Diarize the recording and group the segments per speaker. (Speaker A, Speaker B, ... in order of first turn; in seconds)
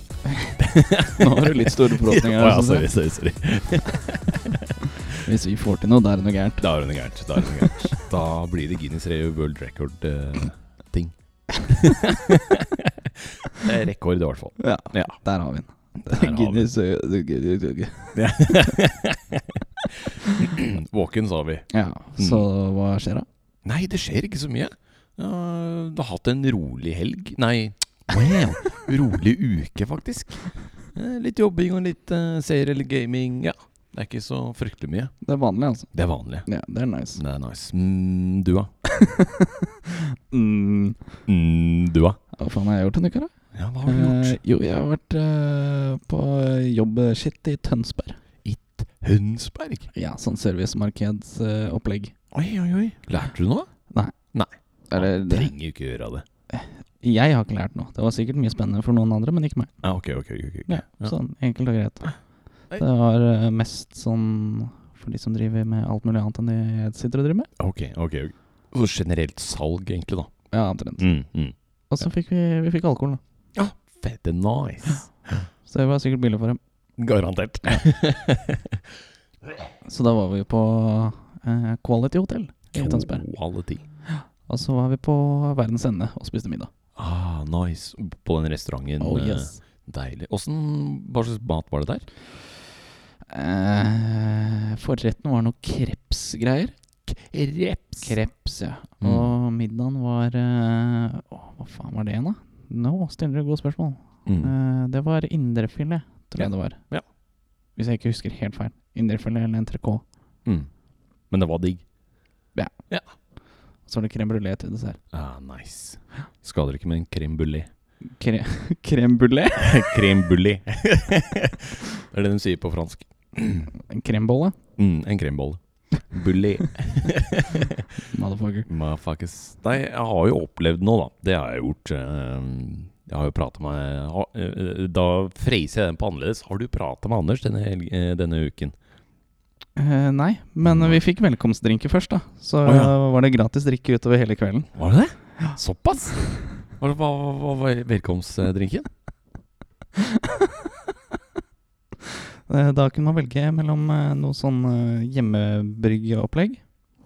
Speaker A: 0.3-2.9, 4.8-6.7, 7.3-8.0, 14.6-18.8, 21.7-23.3, 35.2-35.9, 36.5-37.2, 38.9-41.0, 42.3-43.3, 43.8-48.2, 49.9-52.1, 53.9-54.1, 54.9-55.5, 56.5-59.7, 60.7-62.2, 62.7-67.5, 70.5-71.1, 71.9-73.2, 75.7-76.6, 79.8-83.2, 84.1-86.7, 89.0-89.6, 93.3-96.7, 98.0-106.8, 107.8-110.0, 113.9-115.0, 118.2-119.9, 123.8-124.5, 128.0-128.7, 139.8-144.7, 150.0-150.5, 152.1-156.7
Speaker B: 0.6-4.7, 6.6-15.2, 16.1-16.7, 18.1-21.7, 22.2-22.5, 23.6-35.1, 35.9-36.5, 37.2-38.7, 41.3-42.2, 43.5-44.4, 48.4-49.9, 52.3-53.7, 54.3-56.2, 59.8-61.2, 67.6-70.3, 71.0-72.0, 73.5-75.5, 77.0-78.8, 82.7-83.8, 87.0-92.1, 97.1-98.1, 99.0-99.3, 104.3-104.5, 106.4-107.0, 111.3-111.8, 115.1-117.7, 119.6-123.7, 124.8-127.9, 128.7-138.7, 140.6-141.0, 142.7-142.9, 144.8-148.9